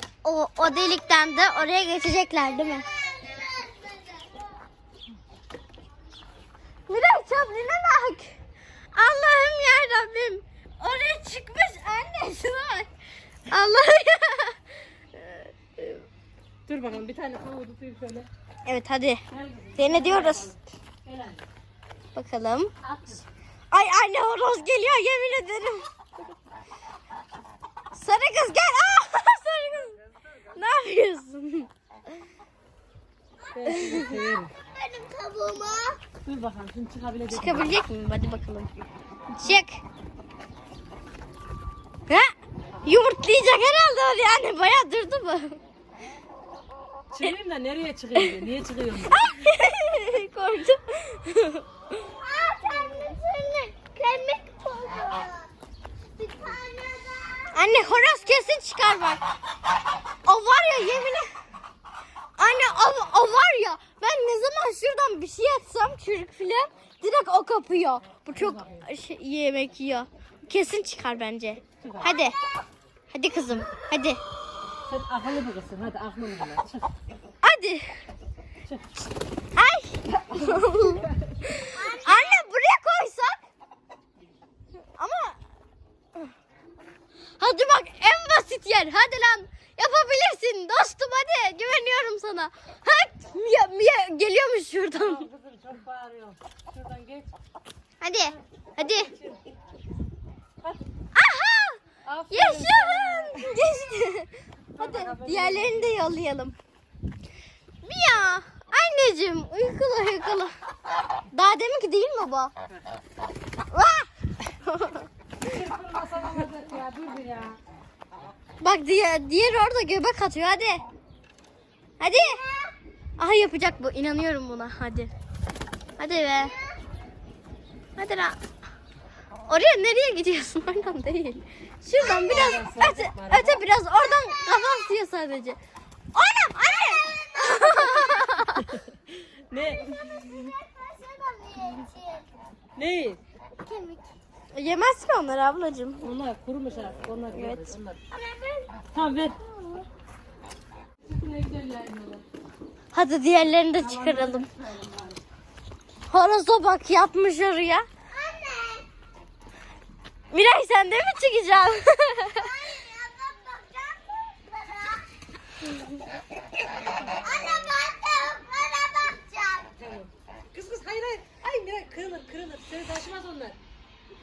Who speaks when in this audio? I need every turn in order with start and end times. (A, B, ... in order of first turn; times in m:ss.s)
0:00.2-0:02.9 A
0:00.7-0:01.1 B
0:02.6-0:04.4 B
0:06.9-0:08.4 A
0:08.9-0:12.9 A
0:13.4-0:16.0 A
0:16.7-0:18.3 C
0:18.6-0:19.2 A
0:19.3-0:21.4 C
0:19.8-0:20.5 A
0:22.1-0:22.7 A
0:22.8-0:23.3 C
0:23.7-0:25.8 A
0:27.9-0:29.9 A
0:29.7-0:30.6 C
0:30.5-0:31.7 A
0:33.5-0:34.5 C
0:33.7-0:34.2 A
0:34.7-0:36.0 B
0:36.2-0:37.8 C
0:37.3-0:39.8 A
0:42.1-0:42.3 A
0:42.8-0:45.6 A
0:47.1-0:49.3 C
0:49.1-0:51.6 A
0:52.2-0:55.5 B
0:56.2-0:57.8 B
0:57.5-0:59.2 A
1:00.2-1:01.3 A
1:02.4-1:12.4 A
1:08.3-1:08.8 C
1:11.8-1:12.2 C
1:12.1-1:12.4 B
1:13.1-1:14.2 A
1:14.9-1:16.9 C
1:17.4-1:18.0 A
1:18.6-1:19.1 C
1:19.5-1:23.4 A
1:20.3-1:21.3 C
1:21.7-1:22.4 B
1:25.0-1:25.4 A
1:27.4-1:35.2 A
1:34.9-1:37.3 C
1:38.0-1:39.1 A
1:38.2-1:39.4 C
1:41.1-1:46.5 A
1:42.0-1:43.6 C
1:44.7-1:45.9 C
1:47.8-1:50.5 A
1:51.3-1:52.5 A
1:53.7-1:54.1 A
1:54.6-1:55.1 A
1:55.4-1:57.6 C
1:58.6-2:00.8 A
2:02.0-2:02.4 A
2:02.2-2:02.7 B
2:03.2-2:05.1 A
2:06.0-2:06.6 A
2:06.4-2:06.8 B
2:08.0-2:08.4 A
2:09.5-2:15.6 A
2:12.0-2:13.6 C
2:14.2-2:14.8 B
2:16.2-2:18.8 A
2:16.5-2:18.4 B
2:18.6-2:20.3 C
2:19.6-2:22.3 B
2:22.8-2:23.2 C
2:23.6-2:24.1 B
2:24.5-2:26.1 A
2:26.0-2:28.1 C
2:27.3-2:27.7 A
2:28.1-2:28.7 B
2:28.9-2:29.4 C
2:31.0-2:32.2 C
2:32.9-2:34.5 A
2:33.8-2:35.2 C
2:36.1-2:37.9 A
2:38.1-2:38.8 B
2:40.3-2:42.5 A
2:42.4-2:45.0 B
2:46.8-2:47.6 C
2:47.2-2:49.7 B
2:49.8-2:53.6 C